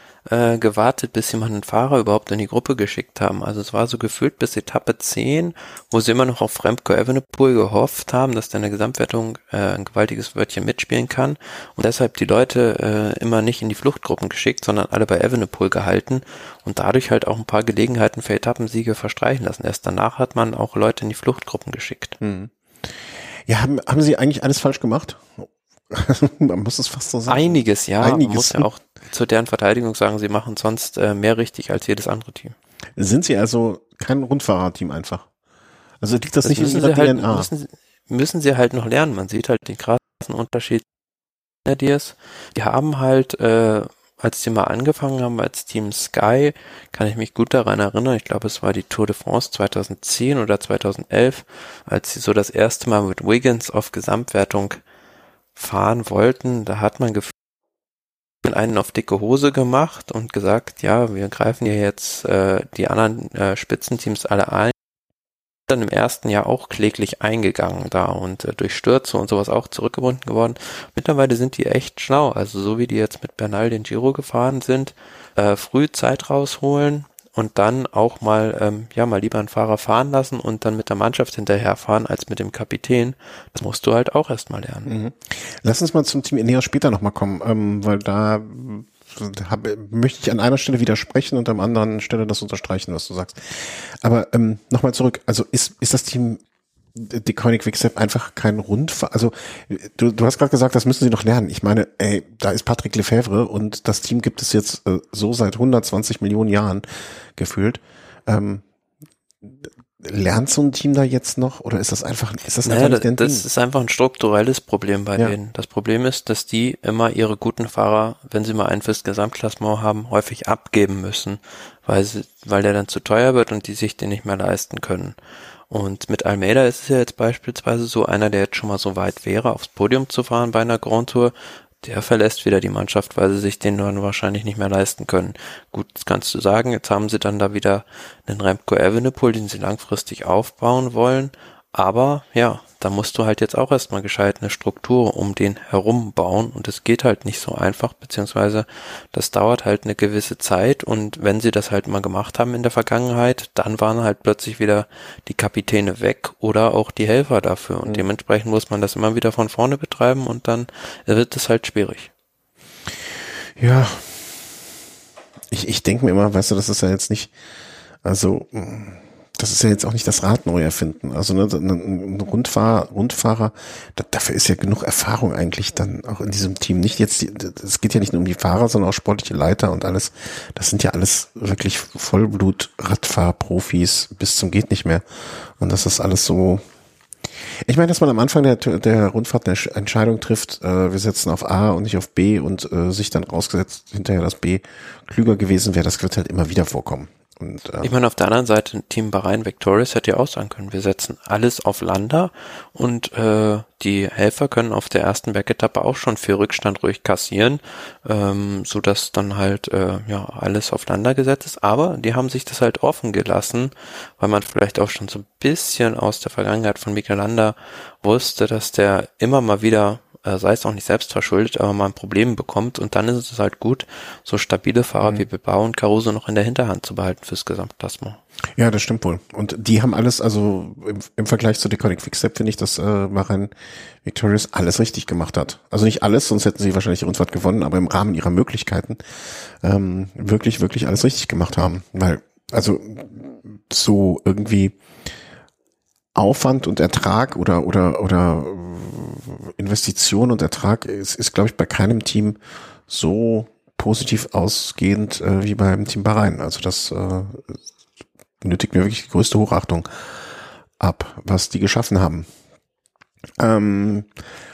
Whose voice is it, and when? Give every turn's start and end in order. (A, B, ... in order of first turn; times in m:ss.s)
0:00.3-0:22.2 A
0:22.2-0:22.5 B
0:23.5-0:28.7 B
0:27.3-0:32.6 A
0:33.0-0:35.3 B
0:36.0-0:37.5 B
0:36.4-0:40.9 A
0:41.7-0:54.8 A
0:55.6-0:57.3 A
0:58.4-1:04.7 A
1:05.7-1:24.9 A
1:24.9-1:36.4 B
1:37.0-1:48.6 B
1:49.4-1:53.4 B
1:52.6-2:05.2 A
2:05.7-2:42.1 A
2:43.6-2:44.5 B
2:45.5-2:47.3 B
2:48.0-3:06.6 B
3:07.6-3:17.9 B
3:17.8-3:48.2 A
3:48.6-3:53.5 B
3:54.0-3:59.0 B
3:59.6-4:04.8 B
4:06.1-4:17.6 B
4:18.4-4:19.9 B
4:20.8-4:22.3 B
4:23.4-4:24.1 B